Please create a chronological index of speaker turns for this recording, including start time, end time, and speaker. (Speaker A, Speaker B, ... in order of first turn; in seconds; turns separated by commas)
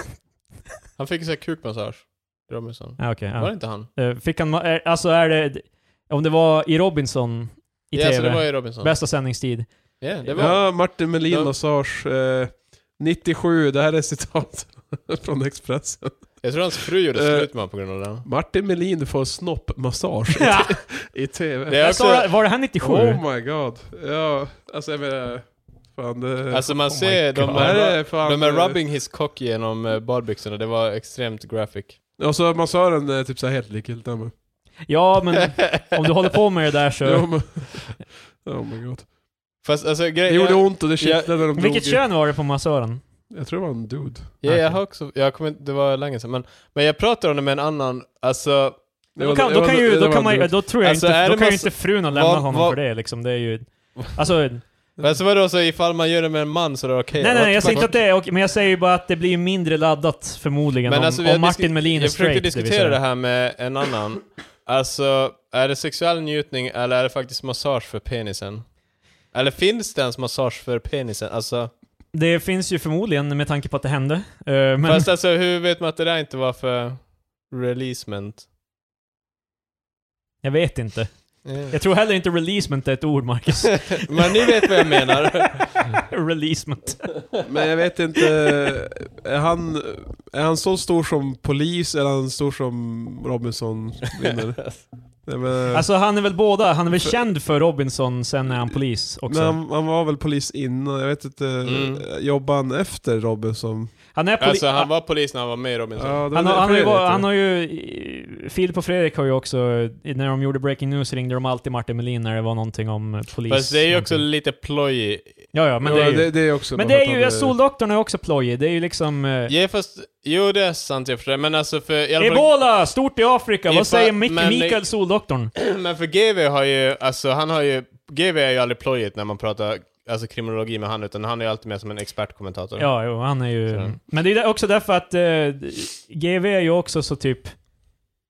Speaker A: 1.0-3.9, Speaker B: 3.0-9.7, Speaker A: 7.9-8.9, Speaker A: 10.0-11.5, Speaker C: 10.3-16.4, Speaker A: 16.4-18.2, Speaker C: 17.1-17.5, Speaker C: 18.2-21.8, Speaker B: 20.4-20.8, Speaker A: 21.7-22.3, Speaker B: 21.7-23.2, Speaker C: 22.8-26.8, Speaker A: 26.5-32.0, Speaker B: 26.9-27.8, Speaker C: 27.4-28.8, Speaker C: 32.2-34.3, Speaker B: 34.9-37.6, Speaker A: 35.6-36.0, Speaker C: 37.0-39.1, Speaker A: 39.6-41.4, Speaker C: 40.3-42.0, Speaker B: 41.5-43.0, Speaker C: 43.3-44.3, Speaker A: 44.4-48.8, Speaker B: 44.4-44.8, Speaker C: 49.1-50.5, Speaker B: 49.2-54.6, Speaker A: 50.8-52.8, Speaker A: 55.0-58.0, Speaker B: 57.2-63.0, Speaker A: 60.9-68.7, Speaker A: 69.3-71.7, Speaker B: 72.1-75.1, Speaker A: 74.8-78.4, Speaker B: 80.4-84.6, Speaker A: 81.4-81.7, Speaker A: 83.9-85.9, Speaker B: 85.9-87.3, Speaker C: 87.4-95.9, Speaker B: 95.7-99.6, Speaker C: 99.3-103.9, Speaker A: 101.6-102.0, Speaker B: 104.1-104.9, Speaker A: 104.4-106.2, Speaker C: 106.0-107.3, Speaker B: 106.3-114.2, Speaker A: 113.5-115.5, Speaker B: 115.5-119.5, Speaker C: 115.8-117.5, Speaker A: 119.5-122.5, Speaker B: 122.2-125.5, Speaker A: 123.7-124.8, Speaker A: 125.5-132.9, Speaker B: 132.8-137.5, Speaker A: 133.7-133.9